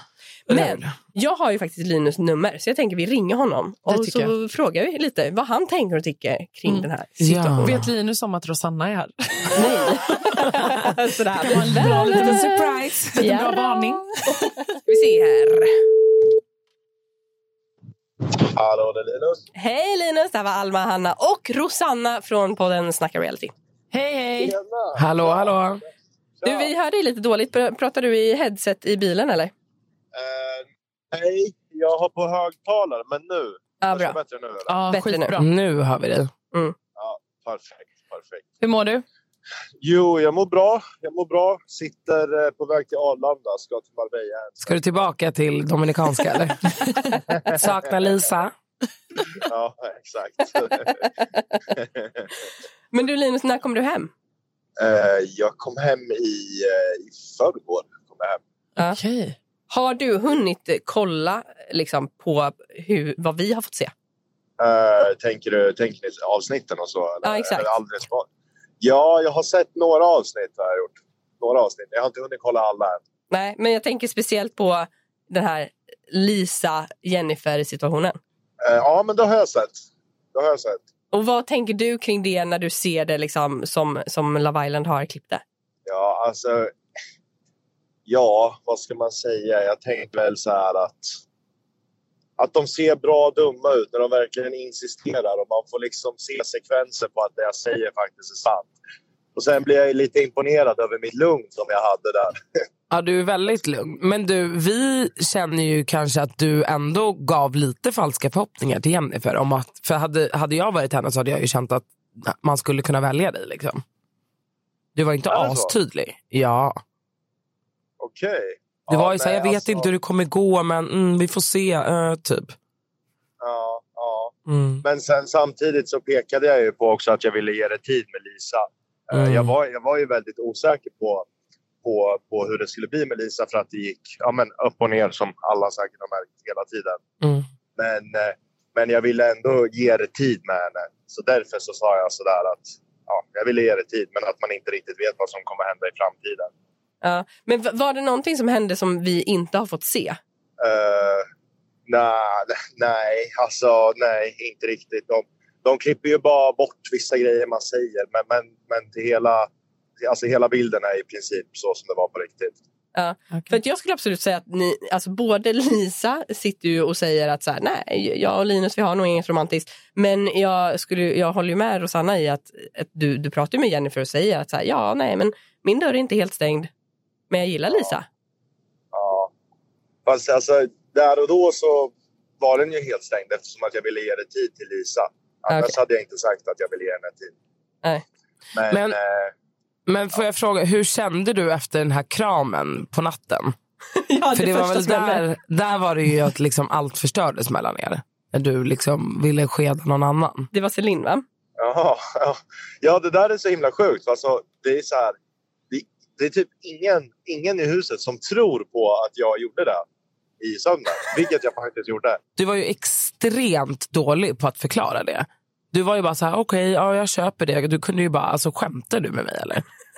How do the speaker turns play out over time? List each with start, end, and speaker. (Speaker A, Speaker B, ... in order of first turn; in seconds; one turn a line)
Speaker A: 0.5-7.8
Speaker B: 0.5-0.9
Speaker C: 3.9-4.3
Speaker B: 7.2-7.8
Speaker C: 7.6-10.6
Speaker A: 9.5-15.9
Speaker C: 11.4-12.6
Speaker B: 11.7-13.3
Speaker C: 13.2-14.7
Speaker D: 18.4-19.4
Speaker A: 19.6-23.5
Speaker C: 23.9-24.5
Speaker D: 24.4-25.5
Speaker B: 24.9-25.8
Speaker D: 26.4-26.7
Speaker A: 26.4-29.5
Speaker D: 30.1-34.8
Speaker A: 33.8-34.2
Speaker C: 34.7-35.5
Speaker A: 34.9-35.4
Speaker B: 35.4-36.3
Speaker D: 37.0-38.5
Speaker C: 38.6-39.0
Speaker D: 39.8-45.0
Speaker B: 44.6-48.5
Speaker D: 49.3-51.1
Speaker D: 51.7-52.3
Speaker A: 52.9-54.1
Speaker D: 54.8-58.4
Speaker C: 58.8-59.4
Speaker A: 59.7-63.9
Speaker D: 64.6-68.3
Speaker A: 67.2-67.7
Speaker D: 68.8-73.0
Speaker A: 73.3-78.2
Speaker D: 78.6-79.8
Speaker D: 80.3-80.8
Speaker A: 81.1-85.4
Speaker D: 85.8-86.7
Speaker D: 88.1-91.1
Speaker D: 92.4-98.7
Speaker D: 99.3-102.3
Speaker B: 102.9-113.8
Speaker B: 114.9-116.8
Speaker D: 115.3-115.7
Speaker D: 118.0-119.9
Speaker B: 118.9-122.5
Speaker D: 123.4-131.3
Speaker B: 124.5-124.8
Speaker B: 129.1-129.5
Speaker D: 131.8-137.0
Speaker D: 137.8-146.5
Speaker A: 147.0-150.2
Speaker D: 150.6-151.2
Speaker D: 151.9-159.5
Speaker D: 160.0-162.6
Speaker A: 162.9-176.7
Speaker A: 177.3-178.1
Speaker D: 177.7-177.9
Speaker D: 178.9-179.3
Speaker D: 180.1-187.3
Speaker A: 185.5-185.8
Speaker D: 188.5-189.3
Speaker B: 188.7-189.0
Speaker B: 189.8-193.6
Speaker A: 193.9-195.2
Speaker B: 194.3-200.5
Speaker A: 200.5-201.2
Speaker D: 201.6-205.2
Speaker D: 205.7-209.8
Speaker D: 210.4-212.2
Speaker B: 212.4-219.6